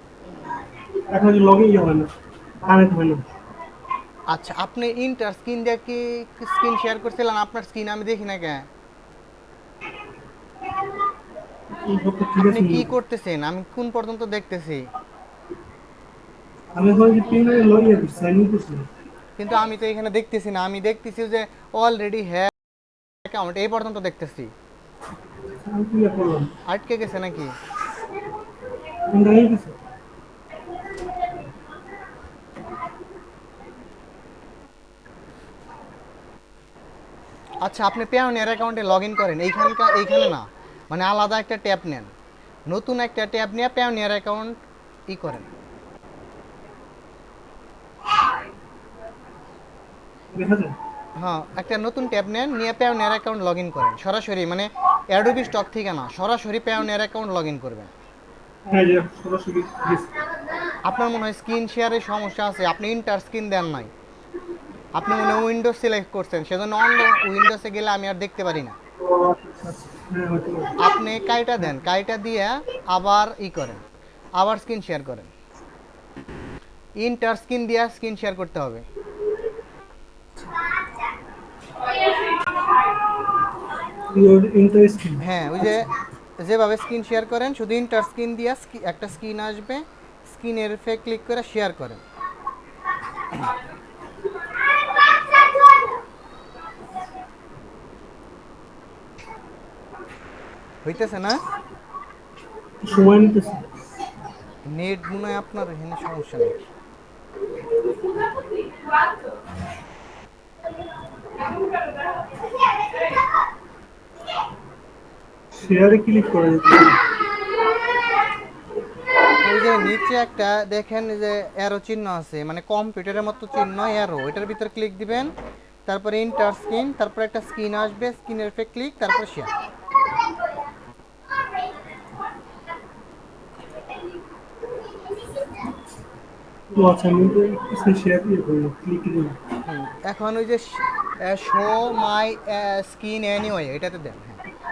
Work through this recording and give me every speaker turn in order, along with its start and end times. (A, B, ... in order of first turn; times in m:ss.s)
0:01.1-0:02.1 A
0:02.6-0:03.2 A
0:04.3-0:08.7 B
0:11.8-0:12.9 A
0:12.4-0:14.9 B
0:16.8-0:18.9 A
0:19.4-0:22.5 B
0:23.2-0:24.5 B
0:25.6-0:26.5 A
0:26.7-0:27.6 B
0:29.1-0:29.8 A
0:37.6-0:42.1 B
0:42.7-0:44.6 B
0:45.1-0:45.5 B
0:50.3-0:50.8 A
0:51.2-0:57.9 B
0:58.7-1:00.2 A
1:00.8-1:03.9 B
1:05.0-1:08.8 B
1:09.0-1:10.8 A
1:10.8-1:13.8 B
1:14.4-1:15.3 B
1:17.0-1:18.8 B
1:24.1-1:25.2 A
1:25.2-1:32.0 B
1:40.8-1:41.4 B
1:42.8-1:43.8 A
1:44.7-1:46.6 B
1:55.5-1:57.0 A
1:59.4-2:05.3 B
2:05.9-2:09.5 B
2:16.7-2:19.4 A
2:19.6-2:24.4 B